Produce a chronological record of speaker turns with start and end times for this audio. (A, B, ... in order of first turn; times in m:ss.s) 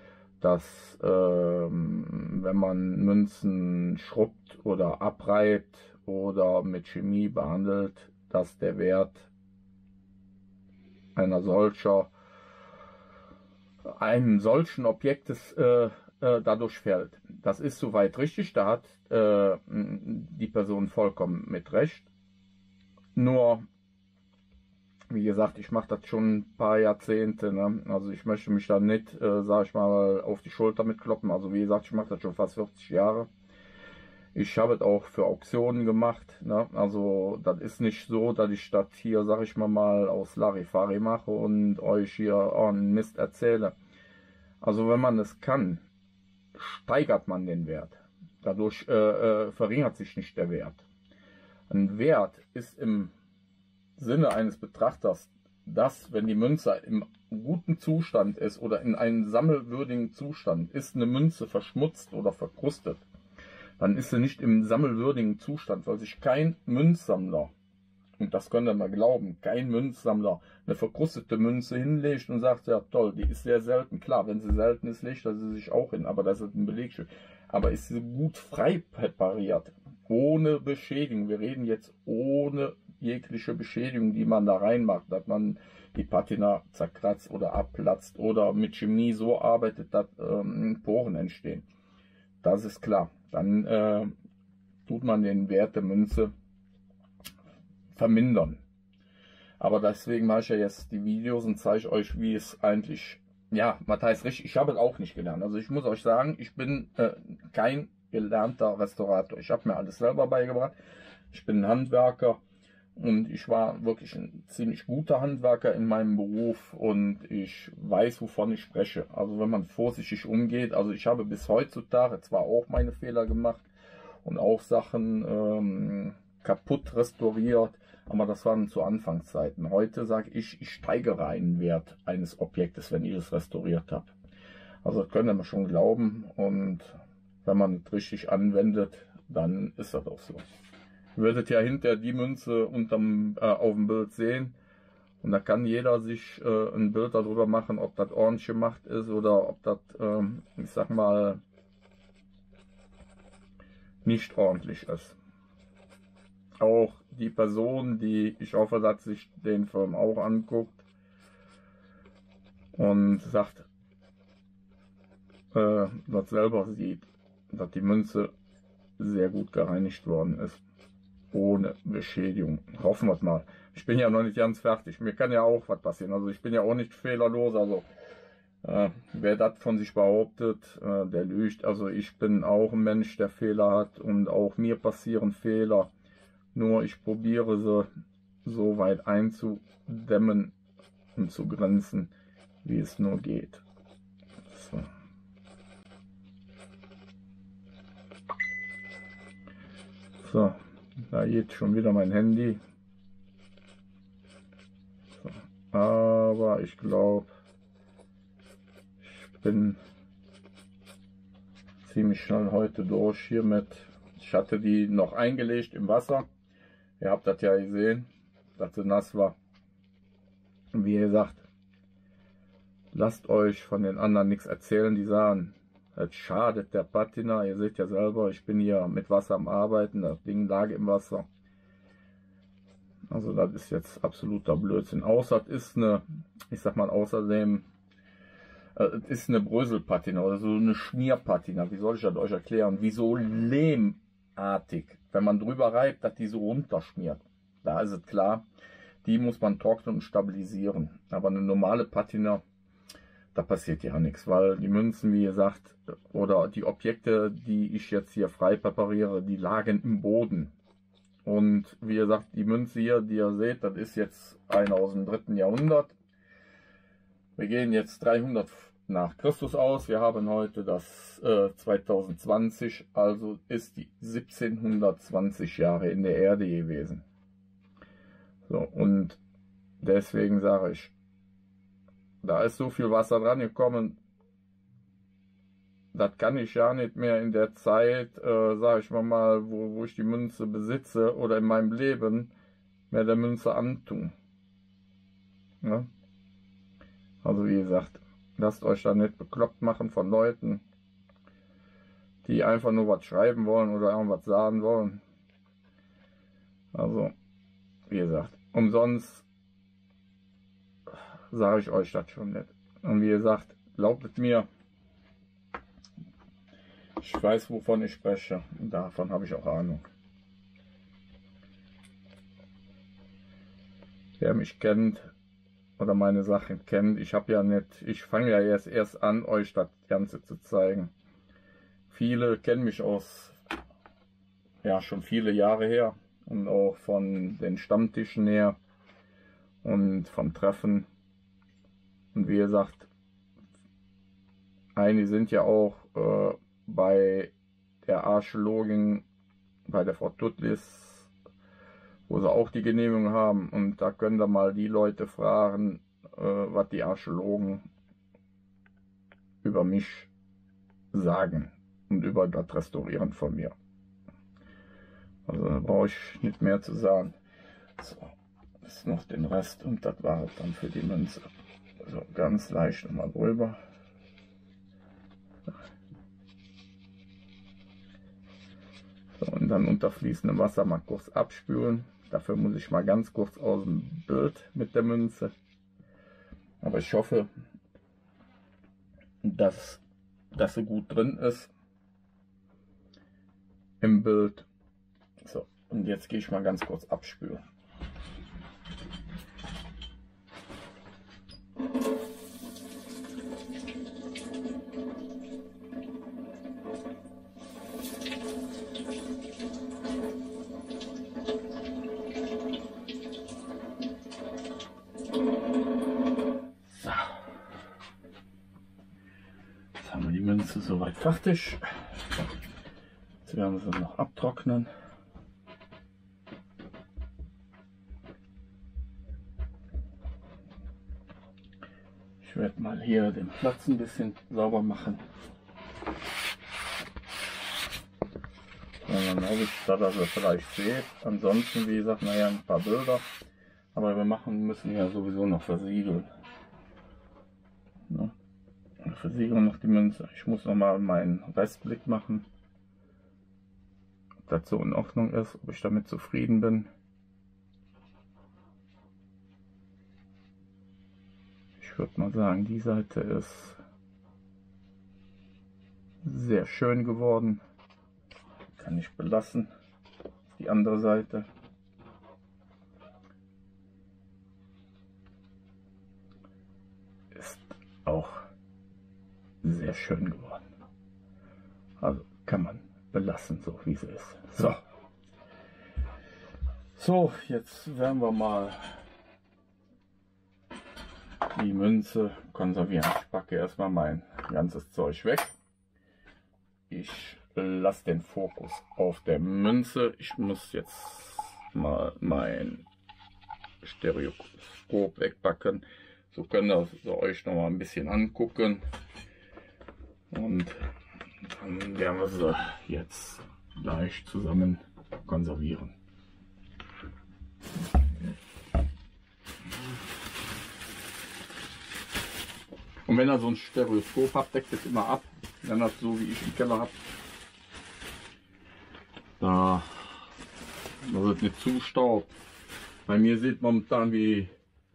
0:00.4-0:09.3 A
0:11.1-0:12.1 A
0:13.9-0:22.1 A
0:23.1-0:23.6 A
0:25.1-0:33.3 A
0:34.3-0:43.8 A
0:44.6-0:45.8 A
0:46.5-0:50.8 A
0:51.7-0:53.1 A
0:54.0-1:03.0 A
1:03.8-1:07.5 A
1:08.2-1:31.6 A
1:32.4-1:34.1 A
1:34.8-1:36.3 A
1:37.9-1:38.6 A
1:39.6-1:50.7 A
1:51.3-1:52.4 A
1:53.0-2:03.6 A
2:04.2-2:14.1 A
2:14.8-2:16.9 A
2:17.4-2:20.4 A
2:21.1-2:24.5 A
2:25.2-2:31.4 A
2:34.0-2:35.2 A
2:36.6-2:40.8 A
2:42.7-2:43.7 A
2:45.5-2:48.3 A
2:49.0-2:50.6 A
2:51.3-2:57.8 A
2:58.6-3:05.9 A
3:06.5-3:07.9 A
3:08.4-3:10.5 A
3:11.2-3:12.1 A
3:12.6-3:13.6 A
3:14.5-3:14.9 A
3:20.2-3:22.6 A
3:25.2-3:27.3 A
3:29.0-3:29.8 A
3:31.8-3:36.2 A
3:37.0-3:39.4 A
3:40.7-3:41.4 A
3:42.9-3:51.2 A
3:53.1-3:57.6 A
3:58.7-4:08.4 A
4:09.0-4:12.4 A
4:13.3-4:20.5 A
4:21.2-4:25.9 A
4:27.4-4:37.0 A
4:38.4-4:39.2 A
4:39.8-4:40.9 A
4:42.2-4:44.0 A
4:45.9-4:52.3 A
4:52.9-4:54.1 A
4:55.6-4:55.9 A
4:57.2-5:00.6 A
5:02.2-5:05.0 A
5:06.7-5:07.1 A
5:07.9-5:09.2 A
5:10.9-5:14.5 A
5:17.0-5:19.8 A
5:24.2-5:25.1 A
5:25.8-5:30.9 A
5:31.9-5:33.4 A
5:34.6-5:38.6 A
5:39.6-5:40.9 A
5:42.1-5:42.9 A
5:44.7-5:47.3 A
5:47.8-5:49.0 A
5:49.6-5:51.1 A
5:52.1-5:57.7 A
5:59.4-6:00.1 A
6:00.9-6:03.5 A
6:05.2-6:07.2 A
6:07.8-6:08.1 A
6:08.6-6:11.3 A
6:11.8-6:13.6 A
6:19.2-6:25.3 A
6:26.6-6:27.3 A
6:29.2-6:29.8 A
6:30.3-6:31.5 A
6:33.8-6:34.5 A
6:35.2-6:37.4 A
6:56.8-6:57.1 A
6:59.8-7:01.6 A
7:03.2-7:04.7 A
7:12.2-7:15.0 A
7:18.8-7:23.0 A
7:23.7-7:26.1 A
7:27.9-7:28.1 A
7:28.8-7:32.3 A
7:34.2-7:36.7 A
7:41.6-7:43.6 A
7:46.0-7:47.4 A
7:48.6-7:49.5 A
7:50.3-7:51.3 A
7:57.1-7:58.2 A
7:59.4-8:00.4 A
8:01.8-8:04.6 A
8:06.8-8:08.8 A
8:11.3-8:15.3 A
8:16.7-8:22.6 A
8:23.6-8:28.6 A
8:30.1-8:30.5 A
8:31.2-8:35.8 A
8:42.8-8:46.8 A
8:49.2-8:49.9 A
8:50.8-8:52.1 A
8:52.8-8:54.3 A